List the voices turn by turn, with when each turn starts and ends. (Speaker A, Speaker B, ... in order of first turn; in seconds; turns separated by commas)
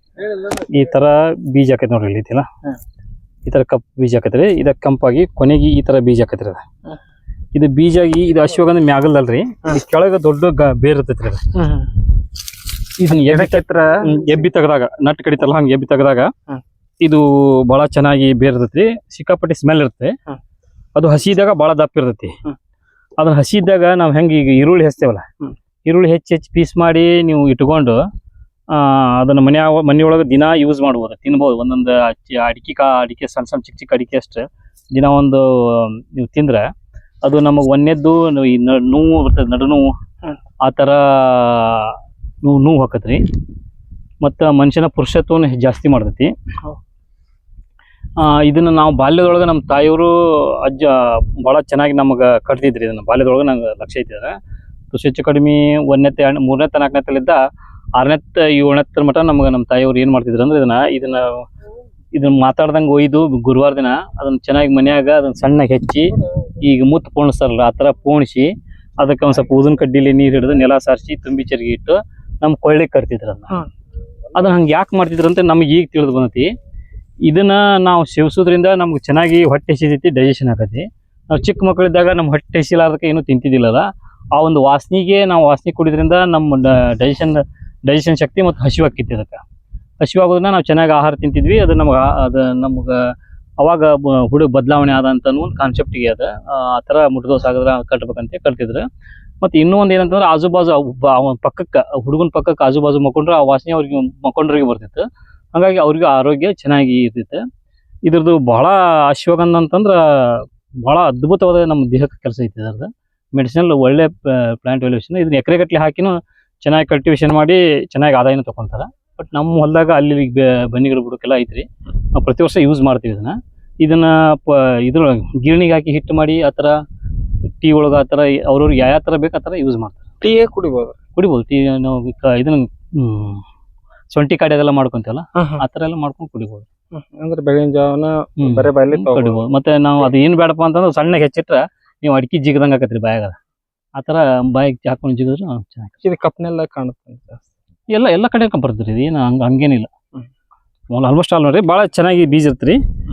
Speaker A: 0.5-2.5, Speaker A: 3.5-6.6, Speaker A: 7.5-11.4, Speaker B: 11.6-11.9, Speaker A: 13.0-16.3, Speaker B: 13.1-14.3, Speaker A: 17.0-20.1, Speaker A: 20.9-22.3, Speaker A: 23.2-25.3, Speaker A: 25.9-28.0, Speaker A: 28.7-36.6, Speaker A: 37.2-39.9, Speaker A: 40.6-43.2, Speaker A: 44.2-46.3, Speaker A: 48.2-54.4, Speaker A: 54.9-57.4, Speaker A: 58.0-61.4, Speaker A: 62.2-73.6, Speaker A: 74.3-76.5, Speaker A: 77.2-89.4, Speaker A: 90.0-98.8, Speaker A: 99.4-107.4, Speaker A: 108.1-126.8, Speaker A: 127.6-130.0, Speaker B: 130.2-131.0, Speaker A: 131.2-133.4, Speaker A: 134.1-136.7, Speaker B: 135.4-135.6, Speaker B: 136.9-139.5, Speaker A: 138.4-143.4, Speaker A: 144.0-146.0, Speaker B: 146.0-147.5, Speaker A: 147.9-149.9, Speaker A: 150.9-152.8